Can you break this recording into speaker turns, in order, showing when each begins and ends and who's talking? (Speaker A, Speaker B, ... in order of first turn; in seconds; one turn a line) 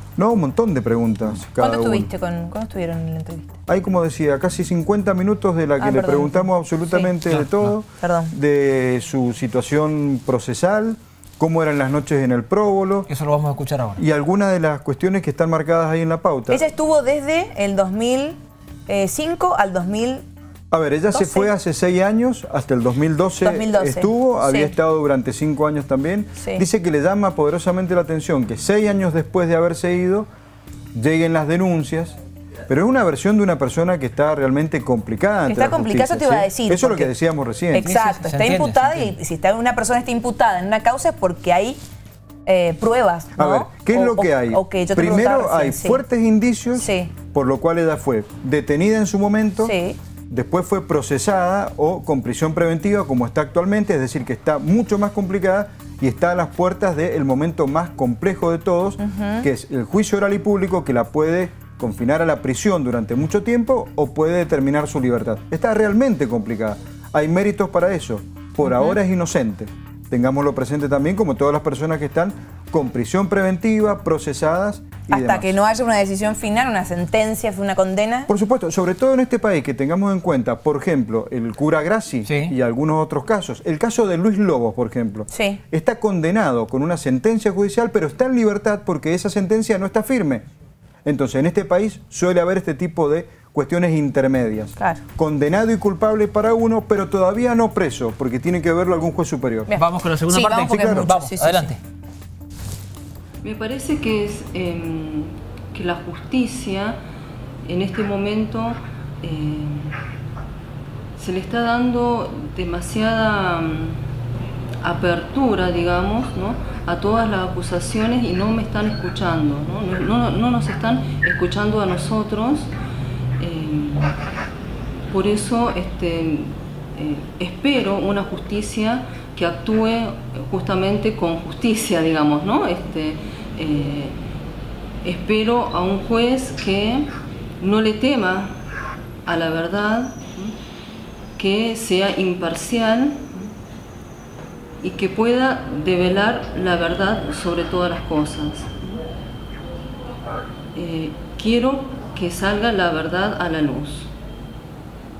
Speaker A: 0.2-2.1
Speaker B: 1.6-3.6
Speaker A: 3.7-13.1
Speaker B: 5.8-7.1
Speaker C: 7.3-7.7
Speaker B: 8.0-8.3
Speaker C: 13.1-14.0
Speaker A: 14.0-16.6
Speaker B: 16.5-20.2
Speaker A: 20.7-30.3
Speaker B: 21.1-21.5
Speaker B: 23.4-24.7
Speaker B: 26.4-26.6
Speaker A: 30.9-32.2
Speaker A: 32.7-37.9
Speaker B: 35.5-37.1
Speaker B: 37.7-41.8
Speaker C: 37.8-39.1
Speaker B: 42.5-46.0
Speaker A: 43.4-49.7
Speaker B: 46.7-47.1
Speaker B: 49.6-50.0
Speaker A: 50.3-75.5
Speaker B: 59.0-59.5
Speaker B: 75.1-78.3
Speaker A: 78.3-90.4
Speaker C: 82.3-82.5
Speaker B: 85.3-85.6
Speaker A: 91.0-99.7
Speaker B: 99.7-101.7
Speaker C: 99.7-101.8
Speaker A: 100.7-101.1
Speaker D: 103.4-107.0
Speaker D: 107.6-110.0
Speaker D: 111.2-114.0
Speaker D: 114.8-122.7
Speaker D: 123.4-124.2
Speaker D: 125.1-134.2
Speaker D: 135.0-138.6
Speaker D: 139.2-140.5
Speaker D: 141.4-143.5
Speaker D: 144.8-149.0
Speaker D: 150.7-154.1